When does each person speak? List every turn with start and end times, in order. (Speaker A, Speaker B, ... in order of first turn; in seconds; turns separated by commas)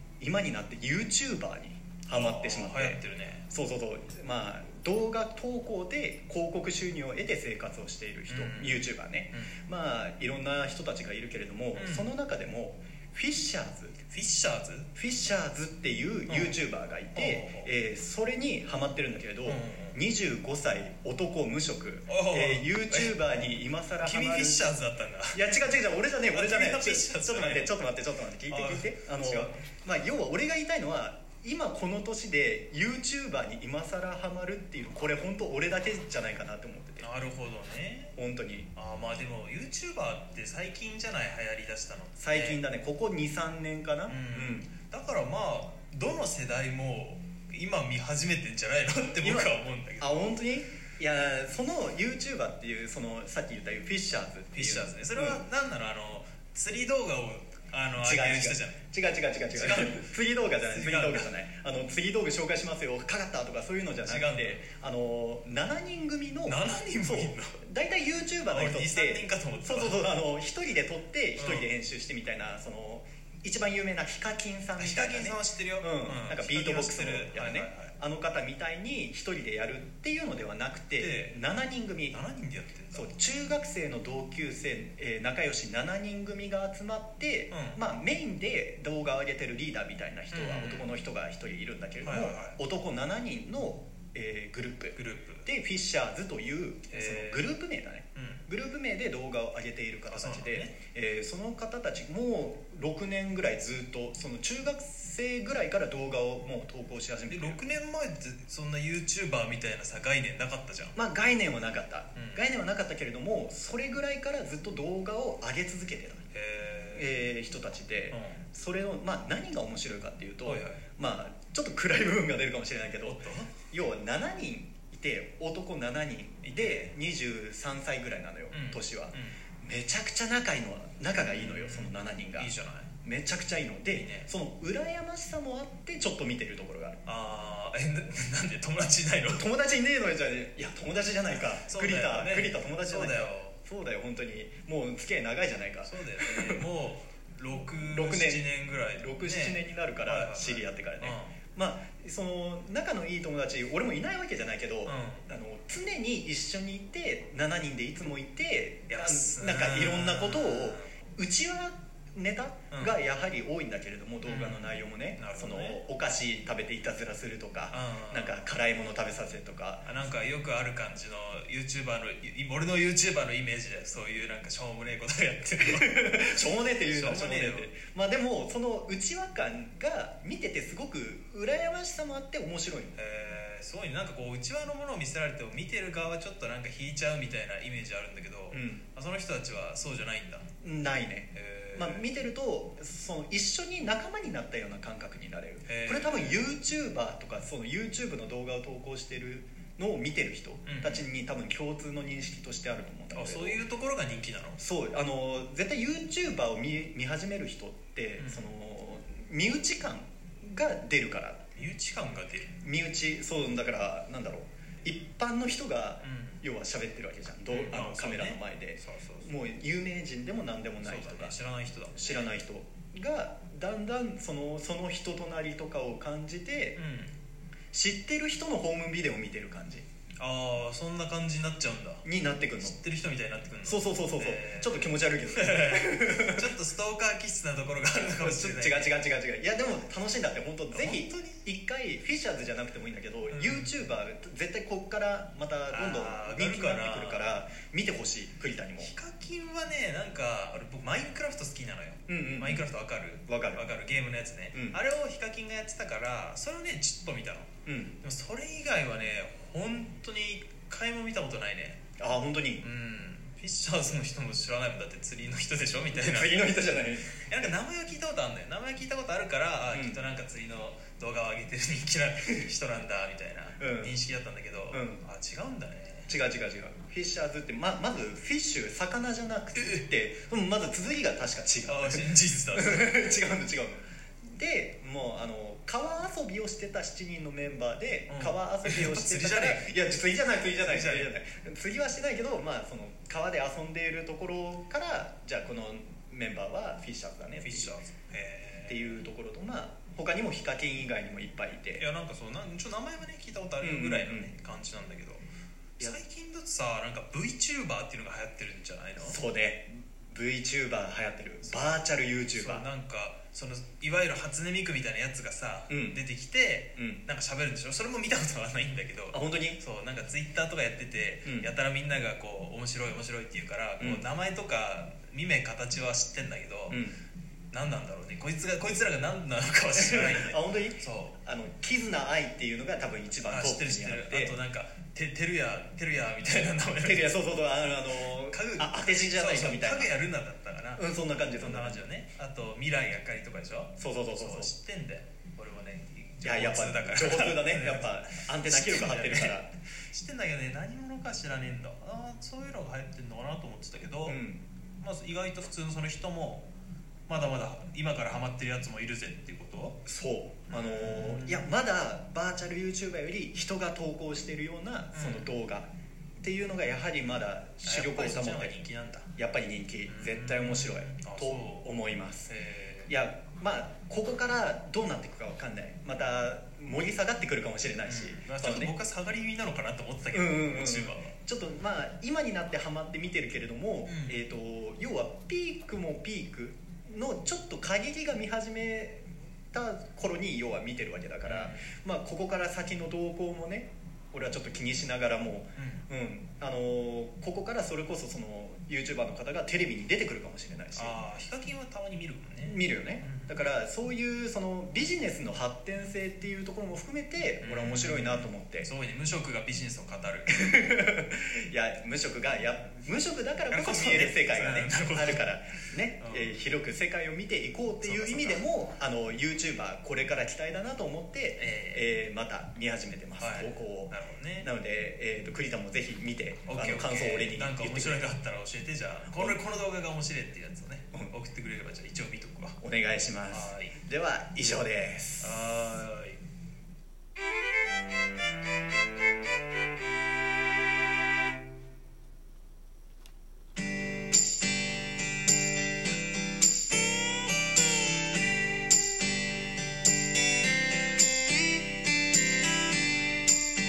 Speaker A: 0.2-14.0, Speaker B: 2.1-3.5, Speaker B: 8.3-9.5, Speaker B: 11.8-12.1, Speaker B: 14.1-14.9, Speaker A: 14.9-24.8, Speaker B: 16.3-16.6, Speaker B: 17.1-17.7, Speaker B: 19.4-20.0, Speaker B: 22.1-23.2, Speaker B: 24.0-25.6, Speaker A: 25.3-37.1, Speaker B: 26.3-27.8, Speaker B: 28.5-29.6, Speaker B: 37.0-38.1, Speaker A: 38.2-38.7, Speaker B: 38.8-42.6, Speaker A: 42.2-44.7, Speaker B: 44.1-50.2, Speaker A: 49.2-55.4, Speaker B: 54.5-58.8, Speaker A: 58.0-82.2, Speaker B: 59.5-61.3, Speaker B: 64.1-64.6, Speaker B: 66.5-67.6, Speaker B: 68.5-70.1, Speaker B: 71.4-71.7, Speaker B: 74.8-77.9, Speaker B: 81.0-81.3, Speaker B: 82.1-83.1, Speaker A: 82.9-107.6, Speaker B: 87.5-87.8, Speaker B: 90.3-90.9, Speaker B: 92.0-92.6, Speaker B: 95.0-95.5, Speaker B: 96.9-97.6, Speaker B: 98.2-98.5, Speaker B: 100.1-100.8, Speaker B: 107.3-111.0, Speaker A: 111.0-116.3, Speaker B: 112.2-112.4, Speaker B: 116.3-117.2, Speaker A: 116.9-132.5, Speaker B: 118.1-118.4, Speaker B: 120.5-120.8, Speaker B: 123.0-123.5, Speaker B: 126.4-126.9, Speaker B: 128.5-129.4, Speaker B: 131.3-132.9, Speaker A: 133.0-137.0, Speaker B: 133.9-134.3, Speaker B: 137.1-139.5, Speaker A: 139.3-146.7, Speaker B: 141.7-143.6, Speaker B: 145.8-151.4, Speaker A: 147.8-169.9, Speaker B: 154.9-155.3, Speaker B: 158.9-160.9, Speaker B: 162.7-163.0, Speaker B: 164.2-165.8, Speaker B: 167.7-168.5, Speaker B: 169.8-177.7, Speaker A: 175.6-183.0, Speaker B: 183.0-190.5, Speaker A: 188.5-188.8, Speaker A: 190.6-203.6, Speaker B: 191.3-192.1, Speaker B: 195.7-196.5, Speaker B: 200.7-201.0, Speaker B: 203.1-204.6, Speaker A: 204.6-211.4, Speaker B: 208.2-208.5, Speaker B: 211.6-212.6, Speaker A: 212.6-221.4, Speaker B: 216.0-216.4, Speaker B: 217.5-219.3, Speaker B: 220.8-222.4, Speaker A: 222.0-226.8, Speaker B: 226.8-227.1, Speaker A: 227.7-229.8, Speaker B: 230.2-232.0, Speaker A: 232.0-232.8, Speaker B: 232.6-239.0, Speaker A: 233.6-236.5, Speaker A: 238.1-248.9, Speaker B: 240.7-241.4, Speaker B: 243.3-243.7, Speaker B: 245.7-247.4, Speaker B: 248.8-261.8, Speaker A: 252.1-252.7, Speaker A: 253.3-253.7, Speaker A: 254.5-254.8, Speaker A: 257.7-258.0, Speaker A: 262.0-262.6, Speaker B: 262.6-276.1, Speaker A: 265.9-267.3, Speaker A: 269.7-270.0, Speaker A: 273.6-274.0, Speaker A: 274.7-275.0, Speaker A: 276.1-283.8, Speaker B: 281.7-283.1, Speaker A: 284.3-297.8, Speaker B: 288.1-289.7, Speaker B: 290.6-291.1, Speaker B: 297.4-299.0, Speaker A: 298.7-301.9, Speaker B: 301.8-305.2, Speaker A: 303.6-304.3, Speaker B: 305.8-309.2, Speaker A: 309.0-312.7, Speaker B: 311.4-311.8, Speaker B: 312.3-326.8, Speaker A: 315.7-316.0, Speaker A: 319.1-319.6, Speaker A: 321.2-321.5, Speaker A: 323.8-324.1, Speaker A: 326.7-327.0, Speaker B: 327.5-331.2, Speaker A: 329.8-334.4, Speaker B: 333.2-337.1, Speaker A: 336.8-340.0, Speaker B: 338.1-340.9, Speaker A: 340.8-341.9, Speaker B: 341.4-354.2, Speaker A: 343.8-344.5, Speaker A: 346.2-349.5, Speaker A: 354.1-354.4, Speaker B: 354.8-356.5, Speaker B: 357.1-359.8, Speaker A: 359.9-365.7, Speaker B: 360.5-361.5, Speaker B: 364.9-365.4, Speaker A: 366.2-368.6, Speaker B: 367.6-369.1, Speaker A: 369.1-372.3, Speaker B: 369.9-371.8, Speaker B: 372.3-372.9, Speaker A: 372.9-378.8, Speaker B: 377.9-381.1, Speaker A: 380.1-401.0, Speaker B: 383.9-384.2, Speaker B: 391.2-391.7, Speaker B: 395.6-395.9, Speaker B: 400.7-403.5, Speaker A: 402.4-408.7, Speaker B: 407.4-410.4, Speaker A: 410.3-428.1, Speaker B: 413.5-415.2, Speaker B: 416.0-416.3, Speaker B: 417.8-418.5, Speaker B: 421.4-421.9, Speaker B: 423.2-424.5, Speaker B: 426.5-432.6, Speaker A: 429.1-429.4, Speaker A: 432.6-435.5, Speaker B: 433.3-433.8, Speaker B: 435.2-436.2